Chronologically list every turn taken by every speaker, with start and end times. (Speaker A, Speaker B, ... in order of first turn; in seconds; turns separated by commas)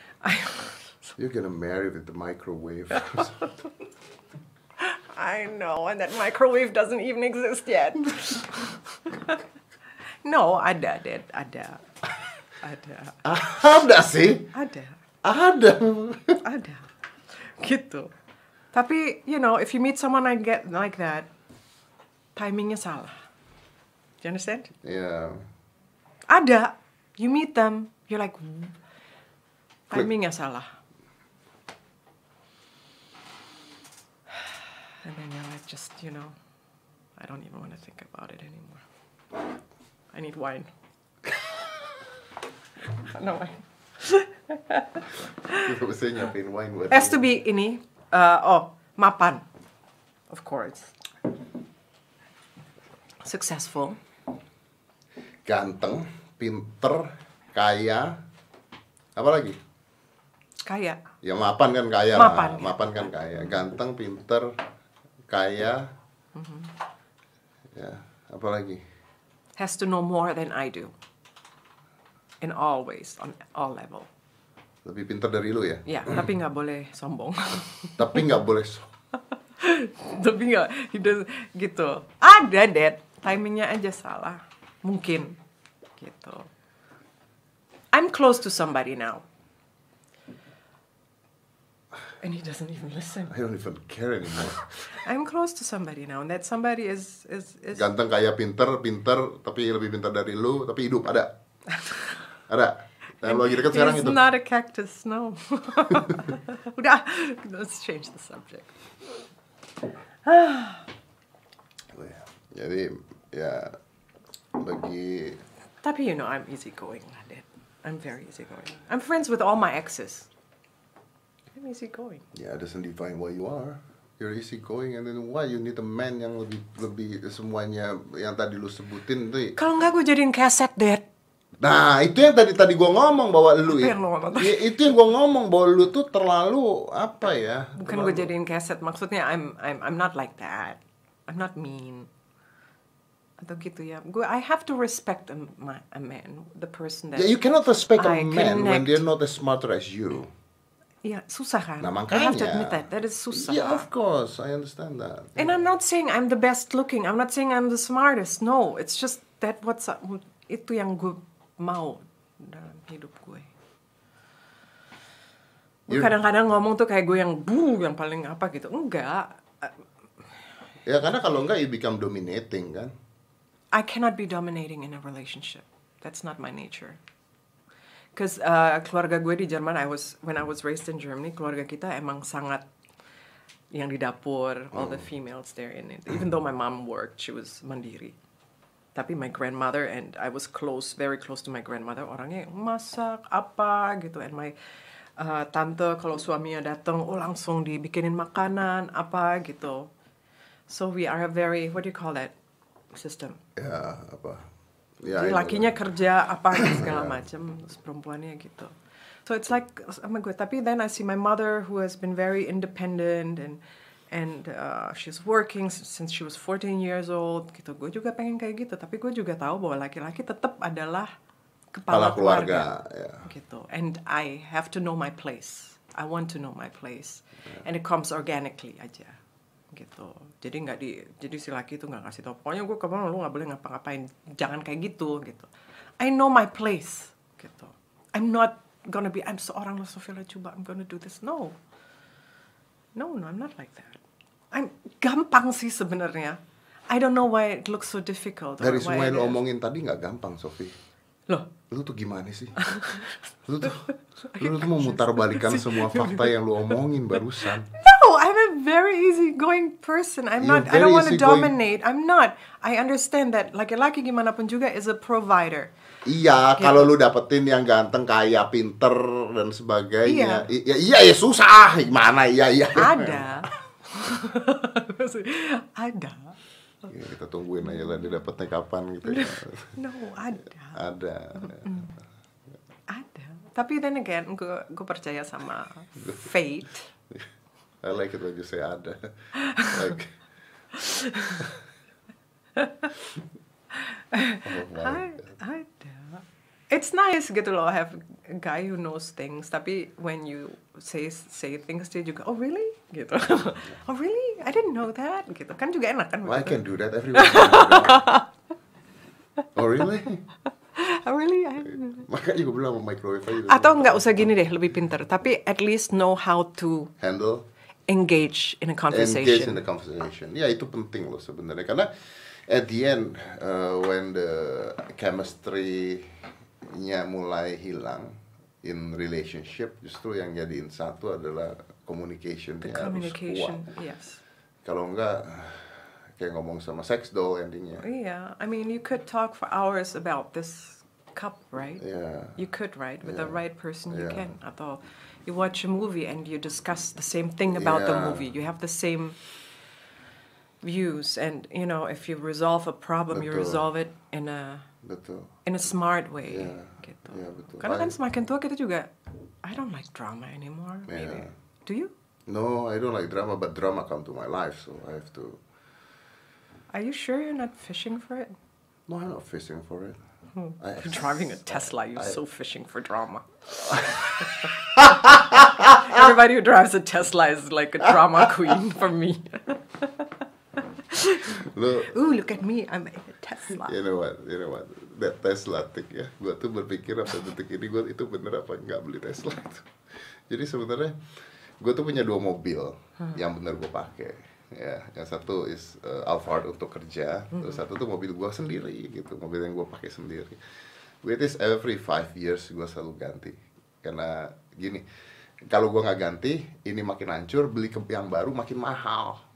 Speaker A: 0.2-0.8, Speaker B: 1.2-3.5, Speaker A: 2.9-3.5, Speaker A: 4.8-9.4, Speaker A: 10.2-11.8, Speaker A: 12.6-13.2, Speaker B: 13.2-14.5, Speaker A: 14.5-15.0, Speaker B: 15.2-16.4, Speaker A: 16.4-18.1, Speaker A: 18.7-21.3, Speaker A: 22.4-23.1, Speaker A: 24.2-24.7, Speaker B: 24.8-25.4, Speaker A: 26.3-28.8, Speaker A: 29.9-30.7, Speaker A: 34.4-36.3, Speaker A: 37.2-38.8, Speaker A: 40.1-40.7, Speaker A: 42.9-45.7, Speaker B: 45.5-47.2, Speaker A: 46.9-49.4, Speaker A: 50.3-50.9, Speaker A: 53.2-54.0, Speaker B: 55.4-58.1, Speaker B: 59.1-59.6, Speaker A: 60.6-61.0, Speaker B: 61.2-64.5, Speaker A: 62.1-63.5, Speaker B: 65.3-65.9, Speaker A: 66.3-66.7, Speaker B: 67.7-68.8, Speaker A: 69.6-70.9, Speaker A: 72.4-74.1, Speaker B: 74.8-76.2, Speaker A: 75.8-78.2, Speaker B: 78.0-78.9, Speaker A: 79.6-85.4, Speaker A: 86.0-86.5, Speaker A: 87.9-89.2, Speaker A: 92.2-93.3, Speaker B: 93.3-94.7, Speaker A: 94.9-97.8, Speaker B: 97.7-101.3, Speaker B: 102.5-104.2, Speaker A: 103.2-108.7, Speaker B: 105.9-106.2, Speaker A: 110.2-110.9, Speaker B: 111.9-113.7, Speaker B: 114.5-115.4, Speaker A: 115.8-120.3, Speaker A: 121.5-122.2, Speaker B: 122.3-129.6, Speaker A: 129.6-131.0, Speaker B: 131.6-138.3, Speaker A: 133.7-134.7, Speaker A: 137.8-142.1, Speaker A: 143.4-147.3, Speaker B: 147.1-150.3, Speaker A: 147.9-149.0, Speaker A: 151.0-153.9, Speaker B: 151.8-155.6, Speaker A: 155.3-163.5, Speaker A: 165.9-169.7, Speaker B: 170.8-172.9, Speaker A: 173.7-177.0, Speaker A: 178.2-182.6, Speaker A: 183.7-188.2, Speaker B: 184.7-185.1, Speaker A: 188.9-194.5, Speaker A: 195.2-199.9, Speaker A: 200.7-202.3, Speaker A: 202.9-203.4, Speaker B: 203.6-204.4, Speaker B: 205.0-205.8, Speaker A: 205.1-208.7, Speaker B: 206.5-207.2, Speaker A: 209.2-213.6, Speaker A: 214.1-221.1, Speaker A: 221.7-222.7, Speaker B: 221.9-223.3, Speaker A: 223.2-229.2, Speaker A: 229.7-241.6, Speaker A: 242.9-244.0, Speaker A: 244.5-249.4, Speaker B: 248.6-250.8, Speaker B: 251.7-252.6, Speaker A: 252.6-256.3, Speaker B: 253.4-257.7, Speaker A: 257.4-265.7, Speaker B: 260.4-261.5, Speaker B: 266.0-273.4, Speaker A: 266.6-266.9, Speaker A: 270.1-270.4, Speaker A: 272.7-276.3, Speaker B: 276.9-279.7, Speaker A: 279.1-280.8, Speaker B: 280.7-281.8, Speaker A: 281.4-281.9, Speaker A: 282.9-286.9, Speaker B: 286.0-286.3, Speaker B: 287.8-290.1, Speaker A: 289.3-290.0, Speaker A: 290.7-291.5, Speaker A: 292.6-292.9, Speaker A: 293.7-306.6, Speaker B: 294.4-295.3, Speaker B: 306.2-308.1, Speaker A: 307.1-308.3, Speaker B: 309.5-310.2, Speaker A: 310.7-312.1, Speaker B: 311.6-314.1, Speaker A: 313.4-316.9, Speaker B: 317.0-317.4, Speaker A: 317.9-319.6, Speaker B: 318.9-333.7, Speaker A: 332.6-334.2, Speaker B: 334.6-337.9, Speaker A: 337.8-341.8, Speaker B: 341.8-342.4, Speaker A: 342.4-349.2, Speaker B: 343.0-344.3, Speaker B: 347.5-348.3, Speaker A: 350.6-354.7, Speaker B: 353.1-353.7, Speaker B: 354.8-355.3, Speaker A: 355.4-358.9, Speaker B: 356.2-357.9, Speaker A: 359.4-361.9, Speaker B: 360.9-361.3, Speaker B: 362.3-365.4, Speaker A: 366.7-368.3, Speaker B: 368.9-370.0, Speaker A: 370.4-383.7, Speaker B: 370.6-372.2, Speaker B: 373.6-376.1, Speaker B: 381.2-381.9, Speaker B: 383.5-389.7, Speaker B: 390.3-390.9, Speaker B: 391.6-400.4, Speaker A: 397.3-397.6, Speaker B: 401.0-404.8, Speaker B: 405.5-409.2